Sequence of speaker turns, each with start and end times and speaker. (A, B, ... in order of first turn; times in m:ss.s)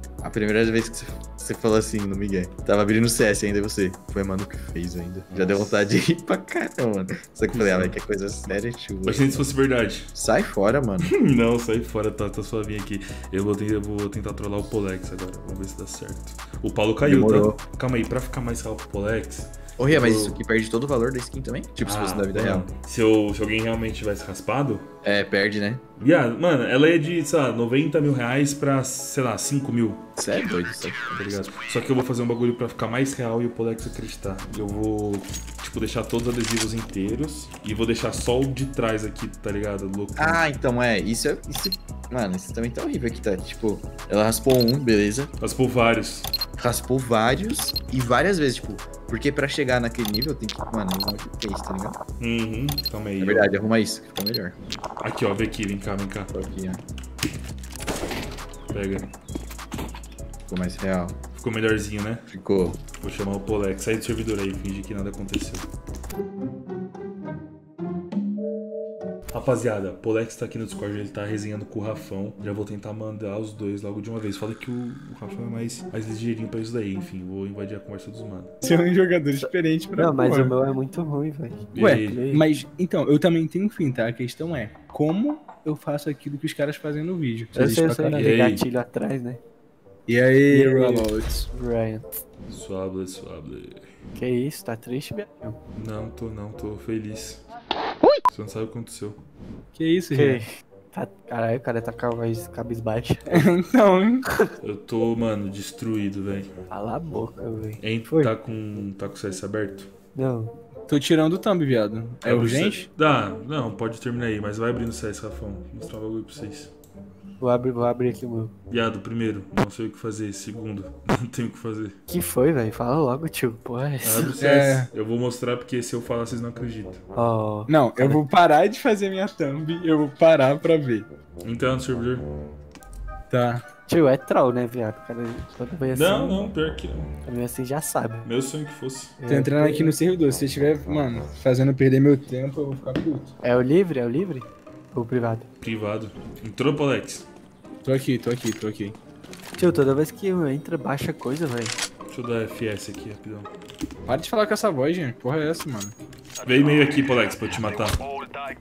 0:00.2-0:09.5 A
0:05.3-0:05.8 B
0:07.5-0:08.0 B
0:09.0-0:10.1 B
0:10.1-0:11.1 A
0:11.0-0:20.4 B
0:17.0-0:17.6 A
0:19.8-0:22.7 A
0:21.8-0:24.8 B
0:25.0-0:25.8 A
0:26.0-0:30.1 B
0:30.2-0:31.4 A
0:31.2-0:40.4 B
0:40.2-0:45.3 A
0:45.4-0:46.3 B
0:46.6-0:52.0 A
0:52.2-0:53.5 B
0:53.2-0:54.6 A
0:55.0-0:56.3 B
0:56.3-0:56.8 A
0:58.7-0:59.1 B
1:00.5-1:01.2 A
1:01.3-1:02.2 B
1:02.3-1:02.8 A
1:02.9-1:05.7 B
1:09.3-1:18.5 B
1:18.6-1:20.5 C
1:20.0-1:22.4 D
1:21.7-1:22.2 B
1:21.8-1:28.3 C
1:27.5-1:29.4 D
1:28.1-1:28.6 B
1:30.1-1:31.5 C
1:30.5-1:32.2 D
1:32.5-1:33.8 B
1:34.1-1:35.6 D
1:35.7-1:37.4 B
1:38.3-1:39.2 B
1:39.7-1:40.4 C
1:40.1-1:43.4 D
1:43.3-1:44.2 C
1:44.6-1:46.5 B
1:46.7-1:48.3 D
1:47.8-1:49.9 B
1:50.1-1:50.6 D
1:50.9-1:52.8 C
1:52.2-1:56.7 B
1:57.4-1:58.5 D
1:58.7-2:02.0 B
2:02.1-2:04.4 D
2:04.0-2:07.0 B
2:04.4-2:04.9 C
2:07.1-2:08.2 D
2:07.7-2:11.1 C
2:11.4-2:12.2 B
2:13.3-2:13.6 C
2:13.8-2:16.4 D
2:15.9-2:17.1 B
2:17.2-2:18.3 D
2:18.2-2:19.1 B
2:19.2-2:19.9 D
2:19.3-2:23.3 C
2:23.4-2:25.5 D
2:25.6-2:27.2 B
2:27.8-2:29.0 C
2:29.6-2:31.8 D
2:32.1-2:33.5 B
2:34.0-2:36.0 C
2:36.4-2:38.0 B